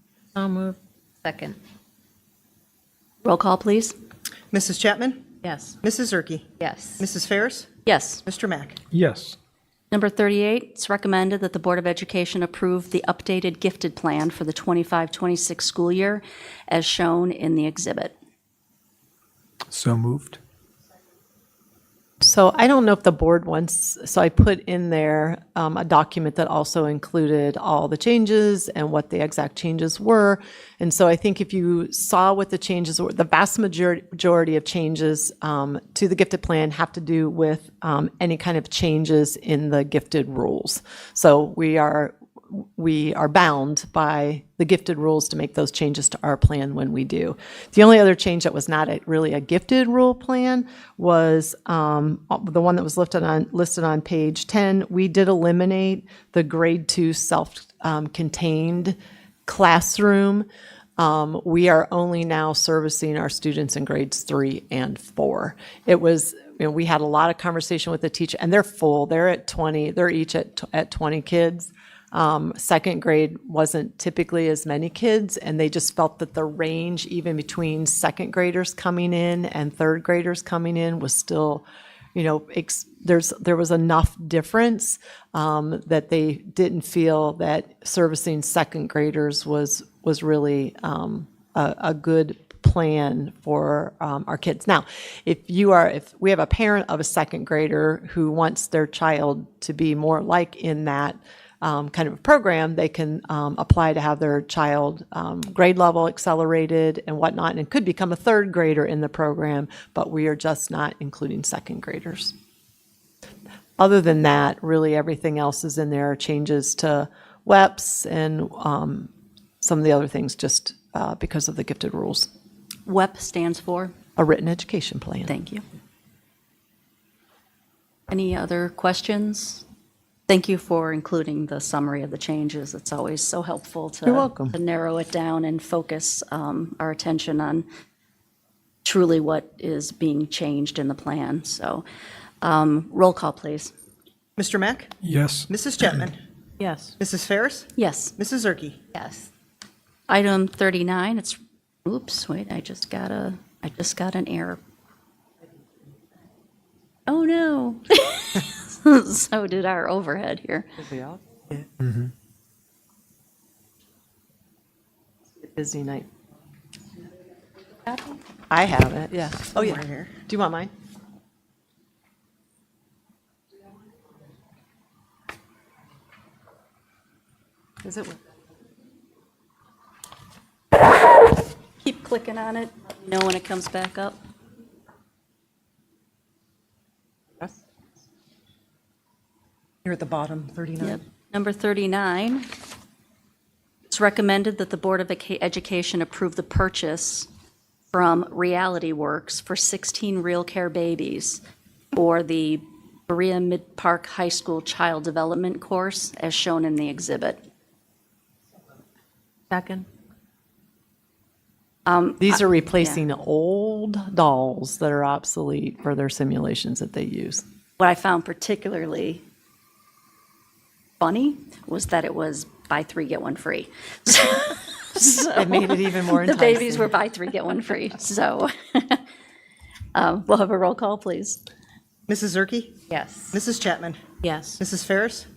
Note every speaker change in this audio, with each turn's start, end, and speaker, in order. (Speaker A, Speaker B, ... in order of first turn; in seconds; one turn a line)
Speaker A: 0.3-1.6
Speaker B: 3.2-3.9
Speaker C: 4.5-7.7
Speaker A: 5.4-5.8
Speaker A: 6.6-7.1
Speaker B: 7.8-8.2
Speaker C: 8.2-8.8
Speaker D: 8.9-9.3
Speaker B: 9.9-18.1
Speaker D: 19.7-20.4
Speaker E: 22.2-60.5
Speaker E: 61.0-112.3
Speaker E: 113.8-119.1
Speaker E: 119.6-122.3
Speaker B: 122.8-123.9
Speaker E: 124.2-125.3
Speaker B: 125.3-125.6
Speaker B: 128.1-129.6
Speaker B: 130.3-137.7
Speaker E: 134.0-134.6
Speaker B: 138.8-141.8
Speaker B: 142.4-143.7
Speaker C: 144.4-144.9
Speaker D: 145.0-146.1
Speaker C: 145.5-146.2
Speaker A: 146.6-146.9
Speaker C: 147.0-148.8
Speaker B: 147.8-148.1
Speaker A: 148.9-149.3
Speaker B: 150.1-154.6
Speaker B: 157.1-160.7
Speaker E: 160.8-161.6
Speaker D: 161.8-162.1
Speaker E: 165.3-166.1
Speaker E: 168.5-170.7
Speaker C: 169.6-170.2
Speaker E: 177.8-178.2
Speaker B: 181.8-184.2
Speaker C: 189.8-191.0
Speaker B: 190.8-192.5
Speaker B: 193.9-197.3
Speaker B: 197.9-201.4
Speaker B: 201.9-207.4
Speaker E: 209.5-209.8
Speaker B: 211.8-213.0
Speaker E: 212.2-217.4
Speaker B: 217.8-219.2
Speaker B: 221.0-229.0
Speaker E: 225.3-227.0
Speaker B: 229.9-231.4
Speaker C: 232.1-235.3
Speaker A: 232.9-233.4
Speaker A: 234.2-234.6